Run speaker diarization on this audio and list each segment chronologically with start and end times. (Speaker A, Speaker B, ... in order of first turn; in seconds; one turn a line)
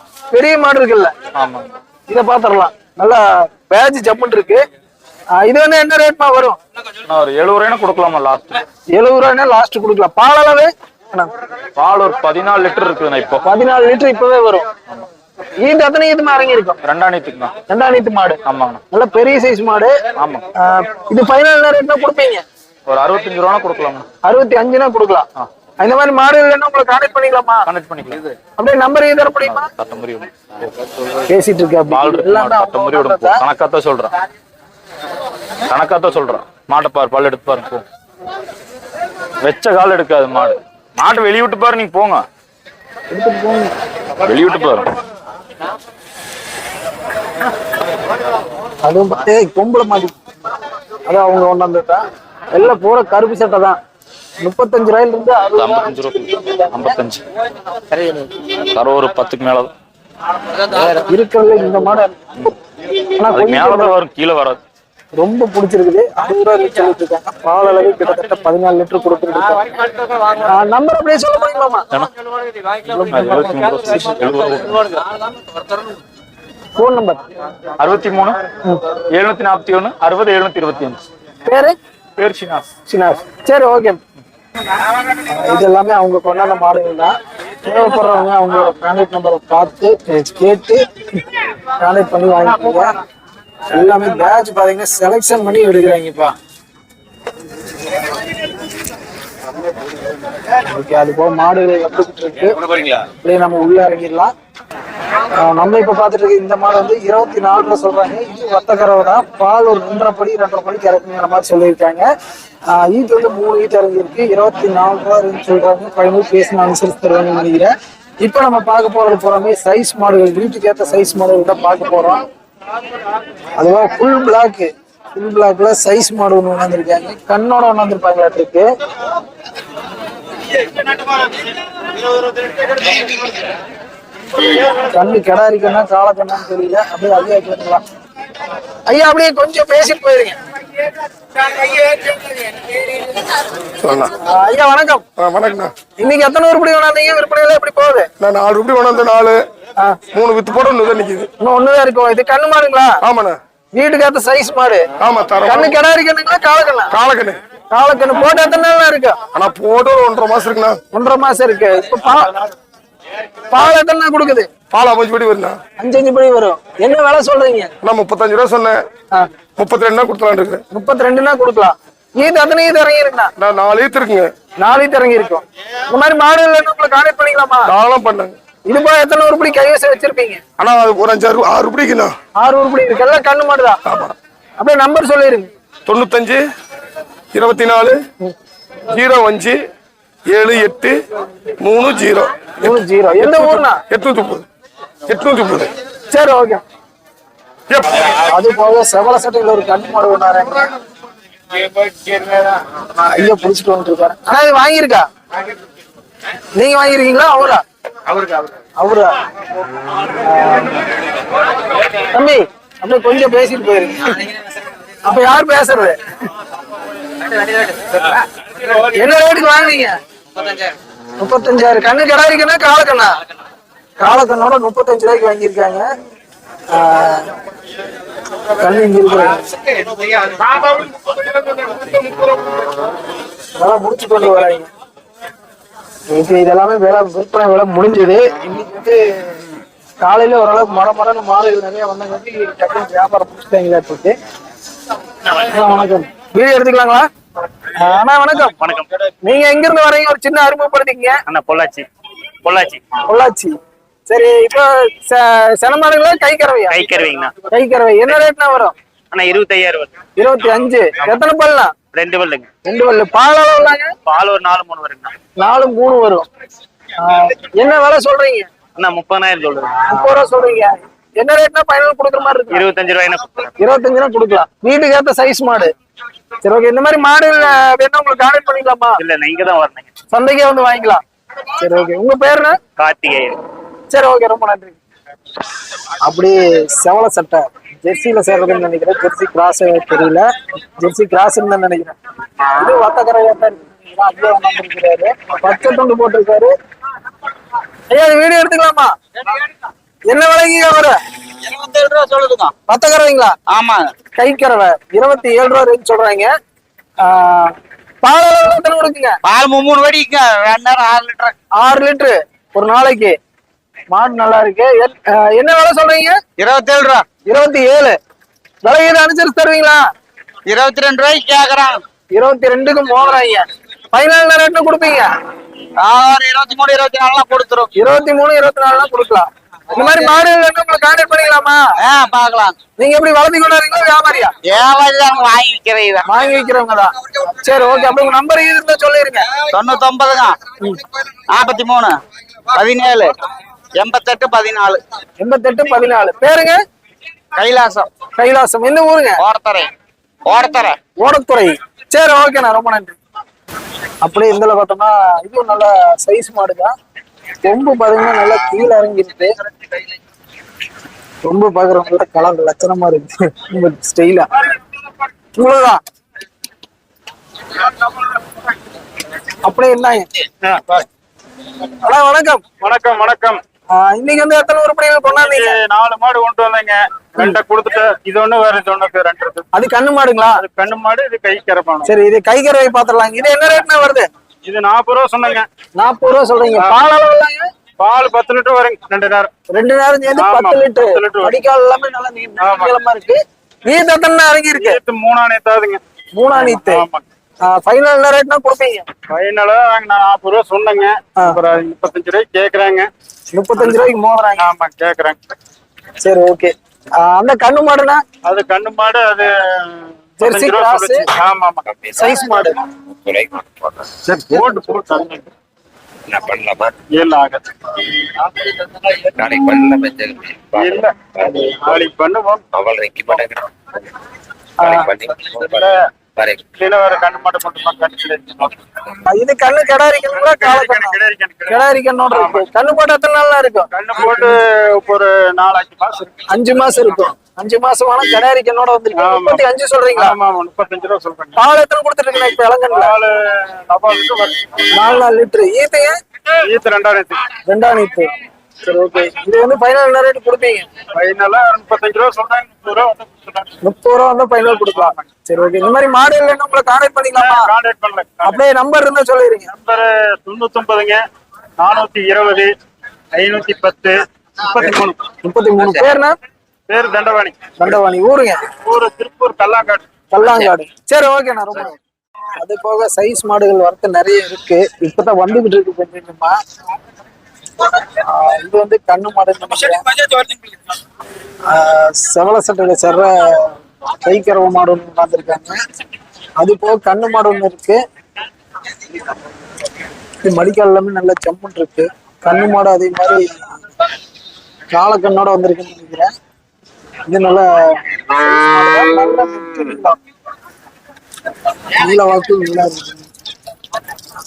Speaker A: 0.3-1.1
Speaker B: 1.4-1.7
Speaker A: 2.1-4.6
Speaker A: 5.4-6.6
Speaker B: 7.0-8.6
Speaker A: 8.9-11.3
Speaker B: 11.8-13.4
Speaker A: 13.4-14.7
Speaker A: 15.6-16.8
Speaker B: 16.8-17.5
Speaker A: 17.7-19.9
Speaker B: 18.4-18.8
Speaker B: 20.2-20.4
Speaker A: 20.6-22.4
Speaker B: 22.9-24.1
Speaker A: 24.2-25.2
Speaker A: 25.8-27.6
Speaker B: 27.7-28.4
Speaker A: 28.6-29.7
Speaker B: 29.4-31.0
Speaker A: 31.3-33.4
Speaker B: 31.9-34.1
Speaker B: 35.7-37.8
Speaker B: 39.4-42.2
Speaker A: 43.1-43.7
Speaker B: 44.2-44.9
Speaker A: 48.8-50.2
Speaker A: 51.1-53.8
Speaker A: 54.4-56.9
Speaker B: 55.5-57.2
Speaker B: 58.6-59.7
Speaker A: 61.0-62.5
Speaker A: 63.2-64.0
Speaker B: 63.3-64.6
Speaker A: 65.2-69.7
Speaker A: 70.4-71.8
Speaker A: 72.9-73.6
Speaker B: 73.1-75.0
Speaker A: 76.8-77.2
Speaker B: 77.8-78.4
Speaker B: 79.1-81.0
Speaker A: 81.4-81.7
Speaker B: 82.2-82.7
Speaker A: 82.9-84.0
Speaker A: 85.2-90.8
Speaker A: 91.8-92.9
Speaker A: 93.7-96.3
Speaker A: 100.6-104.3
Speaker A: 105.3-112.1
Speaker A: 112.7-122.2
Speaker A: 123.6-128.7
Speaker A: 134.8-137.8
Speaker A: 138.9-140.4
Speaker C: 143.7-144.1
Speaker A: 144.2-145.0
Speaker C: 145.2-145.7
Speaker A: 146.0-148.1
Speaker C: 148.2-149.4
Speaker C: 150.1-151.3
Speaker A: 151.4-153.0
Speaker C: 153.0-153.4
Speaker A: 153.7-154.8
Speaker C: 155.0-155.8
Speaker A: 155.4-156.9
Speaker C: 156.9-157.4
Speaker A: 157.7-159.2
Speaker C: 159.3-160.8
Speaker A: 160.9-162.5
Speaker A: 163.5-164.5
Speaker C: 164.7-165.6
Speaker A: 165.8-167.7
Speaker C: 167.8-168.8
Speaker C: 169.6-170.6
Speaker A: 170.7-173.3
Speaker C: 173.4-174.3
Speaker A: 174.6-177.7
Speaker C: 177.7-178.3
Speaker A: 178.7-180.4
Speaker C: 180.6-182.1
Speaker A: 182.4-183.8
Speaker C: 183.9-184.1
Speaker A: 184.6-185.5
Speaker C: 185.9-186.4
Speaker C: 187.3-188.0
Speaker C: 188.9-189.6
Speaker C: 190.3-191.0
Speaker C: 191.6-194.4
Speaker A: 192.6-193.8
Speaker C: 195.1-195.7
Speaker A: 196.1-196.6
Speaker C: 197.7-198.0
Speaker A: 198.1-200.8
Speaker A: 203.0-205.0
Speaker A: 206.6-207.6
Speaker A: 208.8-209.2
Speaker A: 210.1-210.8
Speaker A: 211.9-214.3
Speaker A: 215.1-216.0
Speaker A: 218.7-220.0
Speaker A: 221.2-223.2
Speaker A: 224.0-225.8
Speaker A: 226.7-227.3
Speaker A: 228.6-229.5
Speaker A: 233.6-234.7
Speaker A: 236.1-239.4
Speaker A: 240.0-244.2
Speaker A: 245.3-247.1
Speaker A: 247.7-248.6
Speaker D: 248.6-248.9
Speaker A: 249.2-251.2
Speaker D: 251.2-251.9
Speaker D: 252.4-252.8
Speaker A: 253.1-253.6
Speaker A: 254.1-258.7
Speaker D: 256.7-257.4
Speaker D: 259.1-260.0
Speaker A: 260.2-261.8
Speaker D: 261.9-262.5
Speaker A: 262.6-263.9
Speaker D: 264.0-265.1
Speaker A: 265.4-266.2
Speaker A: 267.0-268.5
Speaker D: 268.8-269.9
Speaker A: 269.9-272.6
Speaker D: 272.5-273.5
Speaker A: 273.6-275.7
Speaker A: 276.4-279.0
Speaker D: 279.0-279.9
Speaker A: 280.1-281.0
Speaker A: 281.6-282.6
Speaker D: 282.8-283.4
Speaker A: 283.9-284.8
Speaker A: 286.0-290.2
Speaker A: 290.8-291.9
Speaker A: 292.6-296.5
Speaker A: 297.9-298.9
Speaker A: 300.1-301.0
Speaker E: 301.5-302.5
Speaker A: 302.7-303.3
Speaker E: 303.5-303.9
Speaker A: 304.2-306.3
Speaker A: 307.0-309.2
Speaker E: 309.2-311.3
Speaker A: 311.6-313.1
Speaker A: 313.9-316.2
Speaker E: 316.4-317.1
Speaker A: 317.3-318.0
Speaker A: 318.6-319.8
Speaker E: 320.5-321.8
Speaker A: 322.1-325.1
Speaker E: 325.8-327.7
Speaker A: 327.8-331.6
Speaker E: 331.8-332.6
Speaker A: 332.8-334.3
Speaker E: 334.4-336.1
Speaker A: 336.1-339.3
Speaker E: 339.5-340.4
Speaker E: 341.3-342.0
Speaker E: 342.5-343.2
Speaker E: 343.7-344.8
Speaker A: 345.2-346.6
Speaker E: 347.4-347.9
Speaker A: 348.2-349.2
Speaker E: 349.2-349.7
Speaker E: 350.2-350.8
Speaker A: 351.0-353.0
Speaker A: 354.0-356.7
Speaker A: 357.4-359.3
Speaker A: 361.2-364.3
Speaker A: 365.4-365.8
Speaker A: 369.4-370.1
Speaker F: 370.4-370.7
Speaker A: 371.7-372.4
Speaker F: 372.6-373.4
Speaker A: 373.7-375.6
Speaker F: 375.3-379.4
Speaker A: 379.5-380.4
Speaker F: 380.4-381.9
Speaker A: 381.8-384.1
Speaker F: 384.5-385.5
Speaker A: 385.8-387.4
Speaker F: 387.8-389.3
Speaker A: 389.5-394.8
Speaker F: 390.2-391.4
Speaker F: 392.4-392.7
Speaker F: 394.6-395.8
Speaker A: 396.1-396.8
Speaker F: 396.6-397.0
Speaker A: 397.4-398.9
Speaker F: 399.1-402.9
Speaker A: 403.3-404.5
Speaker F: 404.4-405.2
Speaker A: 406.0-408.0
Speaker F: 408.2-411.6
Speaker A: 410.2-411.1
Speaker A: 411.9-412.6
Speaker F: 414.0-415.2
Speaker G: 416.1-416.7
Speaker F: 416.9-417.4
Speaker G: 419.2-420.6
Speaker F: 420.6-420.9
Speaker F: 421.6-422.4
Speaker G: 422.5-423.4
Speaker A: 424.6-424.9
Speaker G: 424.8-425.6
Speaker F: 426.6-428.5
Speaker A: 429.1-434.3
Speaker F: 430.2-431.6
Speaker F: 432.1-432.4
Speaker F: 433.7-436.1
Speaker A: 436.3-440.1
Speaker F: 439.0-439.4
Speaker F: 440.0-441.4
Speaker A: 441.4-442.9
Speaker F: 442.8-444.3
Speaker A: 444.7-445.9
Speaker F: 446.5-447.2
Speaker A: 447.4-450.7
Speaker F: 450.9-453.4
Speaker A: 453.6-457.5
Speaker F: 457.1-458.3
Speaker A: 458.2-459.5
Speaker F: 459.6-461.0
Speaker F: 461.6-462.5
Speaker F: 463.1-465.1
Speaker A: 465.2-466.1
Speaker F: 466.7-467.5
Speaker A: 467.6-468.4
Speaker F: 468.6-469.8
Speaker A: 470.1-471.8
Speaker A: 472.3-476.4
Speaker A: 477.7-479.9
Speaker A: 481.5-485.6
Speaker A: 486.4-487.8
Speaker A: 490.2-493.6
Speaker A: 494.7-496.1
Speaker A: 497.1-500.0
Speaker A: 501.7-503.1